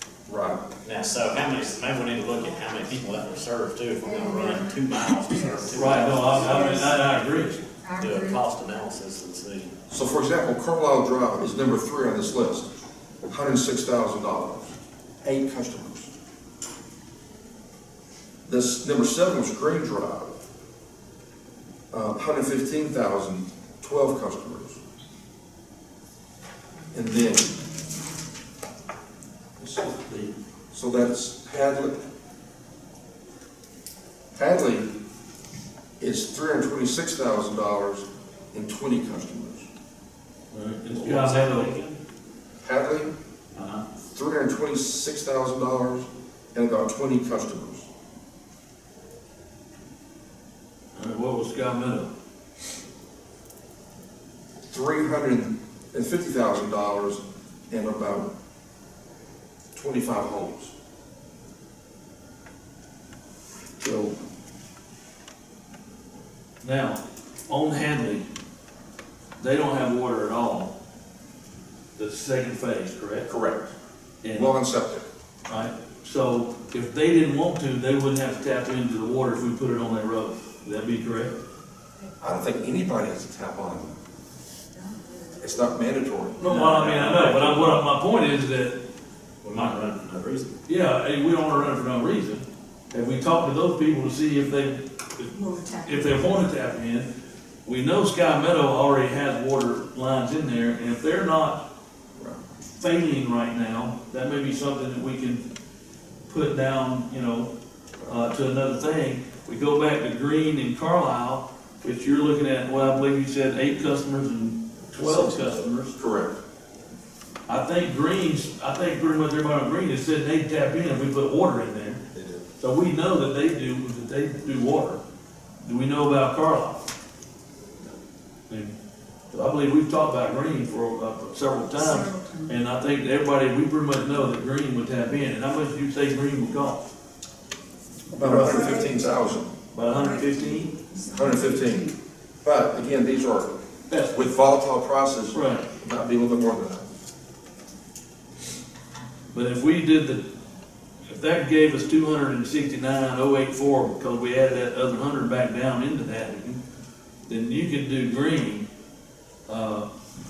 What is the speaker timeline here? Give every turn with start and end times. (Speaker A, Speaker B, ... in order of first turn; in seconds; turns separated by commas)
Speaker A: 0.3-0.6, Speaker B: 0.8-6.9, Speaker C: 4.0-7.0, Speaker D: 5.7-7.7, Speaker C: 7.8-8.4, Speaker B: 8.0-9.8, Speaker A: 9.9-12.7, Speaker A: 13.3-16.1, Speaker A: 18.5-20.4, Speaker A: 21.9-24.8, Speaker A: 26.9-27.6, Speaker A: 29.6-32.0, Speaker A: 34.3-34.9, Speaker A: 36.0-39.7, Speaker D: 40.5-41.7, Speaker B: 40.9-42.0, Speaker A: 42.6-43.1, Speaker B: 43.5-43.9, Speaker A: 44.1-47.9, Speaker D: 51.0-52.1, Speaker A: 54.7-58.3, Speaker A: 59.8-60.7, Speaker D: 63.8-64.1, Speaker D: 66.6-68.3, Speaker D: 69.4-70.7, Speaker D: 72.0-73.3, Speaker A: 73.3-73.7, Speaker D: 74.2-74.5, Speaker A: 74.3-75.1, Speaker D: 75.5-81.3, Speaker A: 82.2-84.0, Speaker A: 85.4-86.5, Speaker D: 86.4-88.8, Speaker B: 86.4-87.8, Speaker B: 89.4-90.6, Speaker D: 90.7-95.3, Speaker C: 95.3-96.2, Speaker D: 95.8-97.1, Speaker D: 97.7-101.6, Speaker D: 102.8-105.4, Speaker D: 106.3-107.5, Speaker D: 108.0-116.0, Speaker B: 114.9-115.6, Speaker A: 116.0-116.4, Speaker D: 117.5-122.0, Speaker D: 122.6-125.0, Speaker D: 125.6-126.9, Speaker D: 128.5-128.7, Speaker D: 129.3-136.8, Speaker C: 131.7-132.5, Speaker A: 138.1-139.5, Speaker D: 138.2-138.8, Speaker C: 138.3-139.2, Speaker D: 139.7-140.7, Speaker C: 139.8-142.0, Speaker A: 141.1-141.9, Speaker A: 142.4-143.5, Speaker D: 143.9-144.3, Speaker A: 144.1-146.9, Speaker D: 145.3-145.7, Speaker D: 149.3-150.2, Speaker D: 151.1-156.6, Speaker D: 157.3-158.7, Speaker D: 159.5-159.9